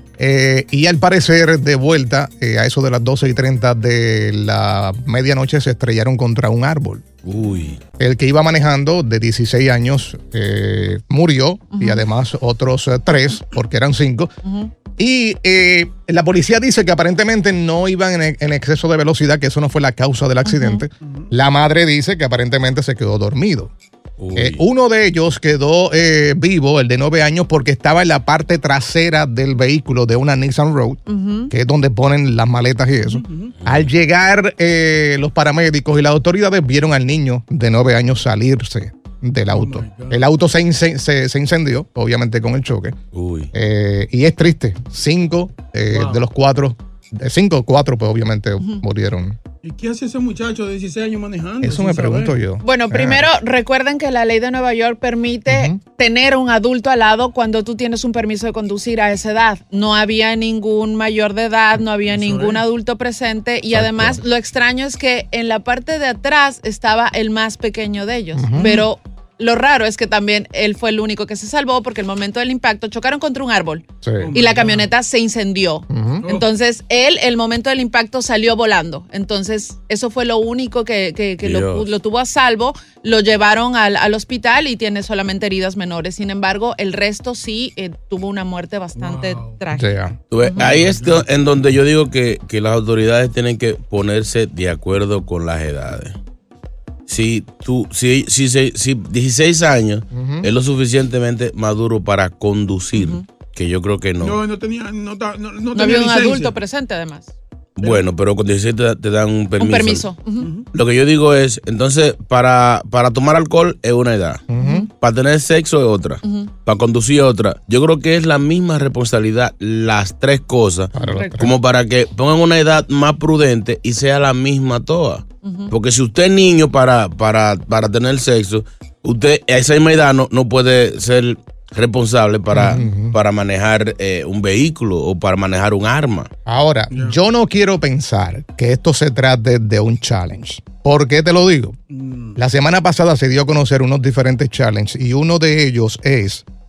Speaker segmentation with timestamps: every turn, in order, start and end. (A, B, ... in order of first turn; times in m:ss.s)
0:00.2-0:07.0 A
0:07.2-0:07.8 B
0:08.0-0:14.3 A
0:15.0-0:23.7 A
0:21.0-0:21.3 C
0:24.2-0:24.6 B
0:24.4-0:43.0 A
0:31.1-0:31.5 D
0:33.0-0:33.5 C
0:39.5-0:40.2 C
0:43.1-0:43.5 B
0:43.5-0:49.4 A
0:45.9-0:46.2 C
0:49.6-0:52.4 C
0:51.6-0:53.2 A
0:52.6-1:29.9 D
0:55.5-0:55.8 A
1:02.1-1:02.6 C
1:03.7-1:04.2 A
1:08.4-1:08.6 A
1:14.0-1:14.3 A
1:14.2-1:14.9 C
1:15.9-1:16.2 A
1:21.4-1:21.8 B
1:29.0-1:29.6 C
1:29.7-1:30.2 A
1:30.3-1:36.2 B
1:30.5-1:31.3 C
1:37.1-1:44.4 B
1:40.1-1:40.5 A
1:44.2-1:46.5 C
1:45.7-1:47.3 D
1:47.8-1:50.1 B
1:49.6-1:50.5 D
1:50.4-1:50.7 C
1:50.7-1:54.4 B
1:54.5-1:54.8 A
1:55.0-2:16.3 B
2:00.9-2:01.5 A
2:12.5-2:13.2 A
2:16.4-2:21.8 A
2:16.9-2:17.2 C
2:21.9-2:22.4 C
2:22.4-2:26.4 A